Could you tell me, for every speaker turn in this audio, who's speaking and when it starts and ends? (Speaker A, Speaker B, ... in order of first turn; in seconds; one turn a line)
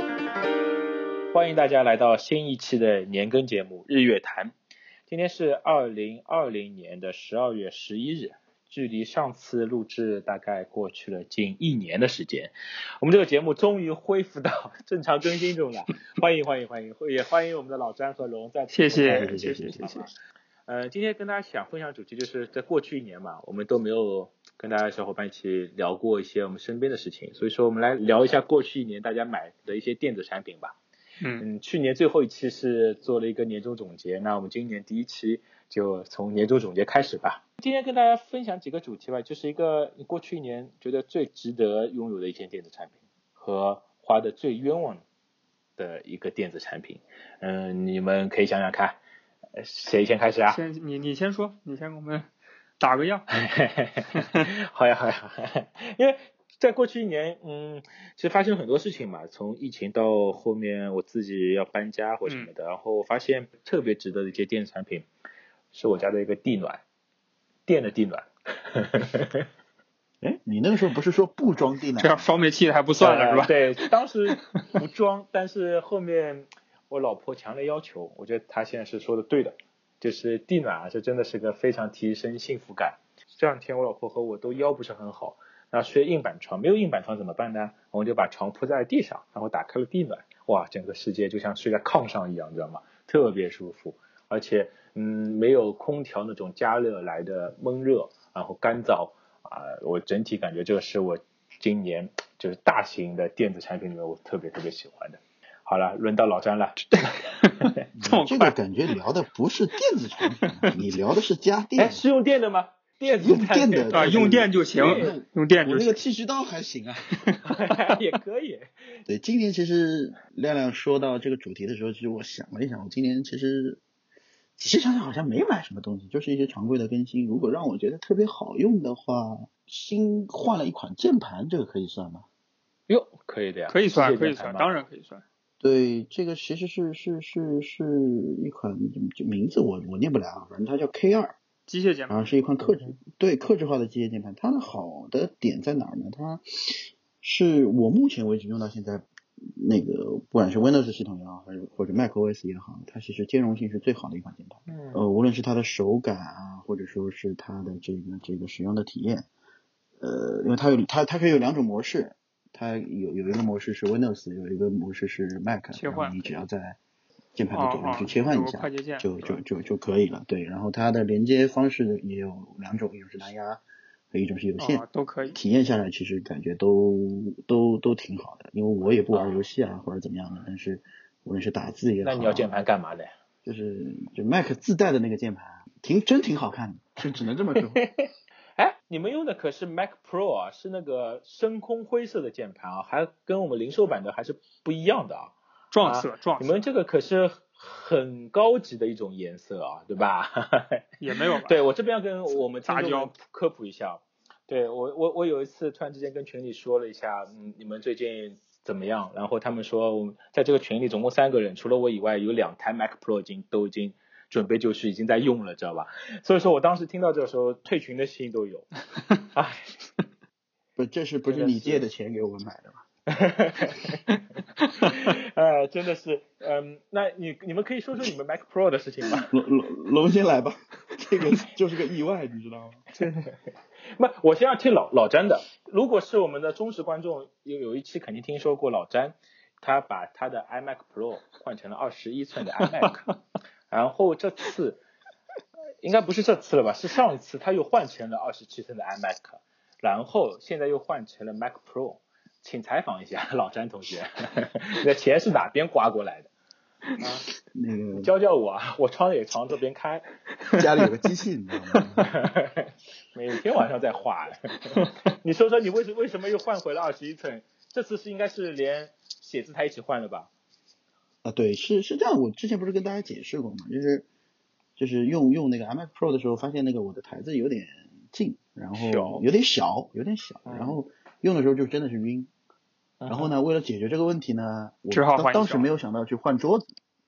Speaker A: 1.3-4.5
Speaker A: 5.1-20.1
Speaker B: 18.7-20.1
Speaker C: 19.0-19.9
Speaker A: 20.7-30.8
Speaker B: 31.2-31.5
Speaker A: 31.4-45.0
Speaker A: 45.8-49.0
Speaker A: 49.5-50.6
Speaker B: 50.5-53.3
Speaker A: 53.3-65.1
Speaker B: 62.3-62.5
Speaker A: 65.7-66.8
Speaker A: 67.7-69.4
Speaker C: 70.2-72.3
Speaker B: 72.0-73.7
Speaker A: 73.0-107.7
Speaker B: 74.3-74.7
Speaker B: 107.0-108.6
Speaker C: 107.9-112.0
Speaker B: 110.4-110.7
Speaker A: 111.8-115.2
Speaker C: 113.2-117.2
Speaker B: 113.9-116.0
Speaker B: 117.2-117.5
Speaker A: 117.5-119.0
Speaker C: 119.1-123.8
Speaker C: 124.6-132.3
Speaker A: 132.9-134.7
Speaker B: 133.7-135.2
Speaker C: 135.6-141.4
Speaker B: 141.7-142.4
Speaker C: 142.1-159.3
Speaker A: 142.6-143.0
Speaker A: 154.7-155.0
Speaker C: 160.0-166.8
Speaker B: 165.7-166.4
Speaker C: 167.4-182.5
Speaker B: 167.5-169.4
Speaker B: 174.6-175.4
Speaker A: 179.1-179.4
Speaker A: 182.0-183.1
Speaker C: 183.4-187.8
Speaker A: 187.6-200.9
Speaker B: 195.7-196.6
Speaker B: 201.0-201.6
Speaker A: 201.4-218.7
Speaker B: 202.3-203.1
Speaker A: 219.3-219.7
Speaker C: 220.8-222.8
Speaker A: 221.3-221.9
Speaker A: 223.1-224.0
Speaker B: 224.6-224.9
Speaker A: 224.8-229.3
Speaker C: 229.2-232.9
Speaker B: 233.0-233.3
Speaker A: 233.8-243.0
Speaker B: 242.6-243.2
Speaker A: 243.7-244.8
Speaker A: 245.8-256.3
Speaker A: 257.0-257.2
Speaker C: 257.5-258.1
Speaker A: 257.9-260.1
Speaker C: 260.5-262.1
Speaker A: 262.0-270.3
Speaker C: 271.2-274.1
Speaker C: 274.8-282.3
Speaker A: 278.7-279.2
Speaker A: 280.5-280.8
Speaker A: 283.0-283.3
Speaker C: 283.1-286.6
Speaker B: 284.9-285.7